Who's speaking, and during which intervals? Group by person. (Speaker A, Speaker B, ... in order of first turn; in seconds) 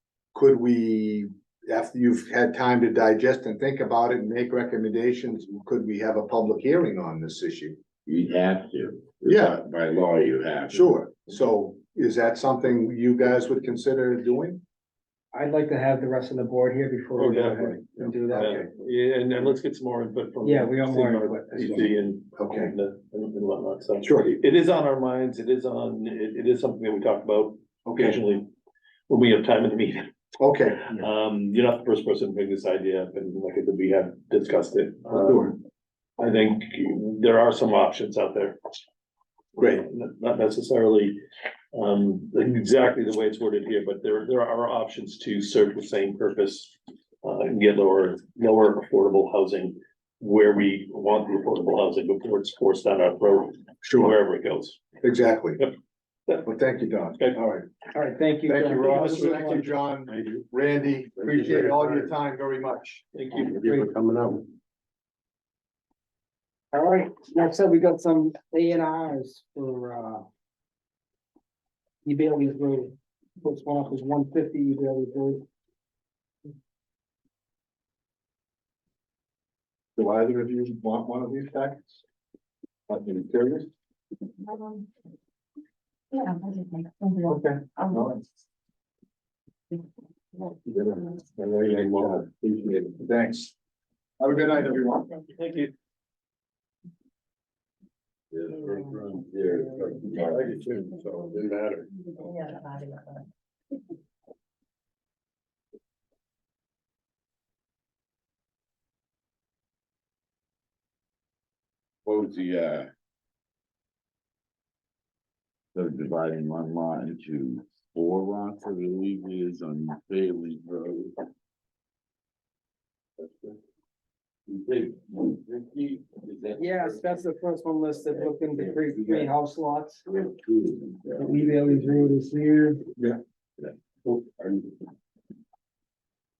Speaker A: 0.3-7.8, 9.3-9.6, 10.7-14.6, 18.3-18.6, 22.4-22.7, 24.0-24.3, 27.9-28.2, 30.4-31.0, 35.1-35.5, 39.6-39.8, 53.8-54.1, 55.0-55.6, 56.4-57.7, 58.5-63.1, 63.8-64.1, 80.0-82.0, 82.9-83.7, 87.3-88.2, 90.7-93.5, 94.2-95.2
Speaker B: 8.1-11.0, 98.3-100.9, 112.0-112.9, 115.7-121.2, 123.2-123.5, 124.5-127.3, 128.0-129.3, 130.1-132.2, 133.6-134.7
Speaker C: 15.3-18.6, 20.4-21.8, 57.9-59.4, 63.5-63.9, 66.7-70.2, 72.0-75.4, 126.6-130.1, 131.2-132.9
Speaker D: 17.1-17.8, 18.3-28.5, 29.1-30.0, 30.9-35.6, 36.2-38.6, 39.6-41.2, 41.7-54.8, 58.8-59.7, 63.1-63.6, 95.3-95.7
Speaker E: 86.1-87.3, 98.7-99.0, 102.2-103.2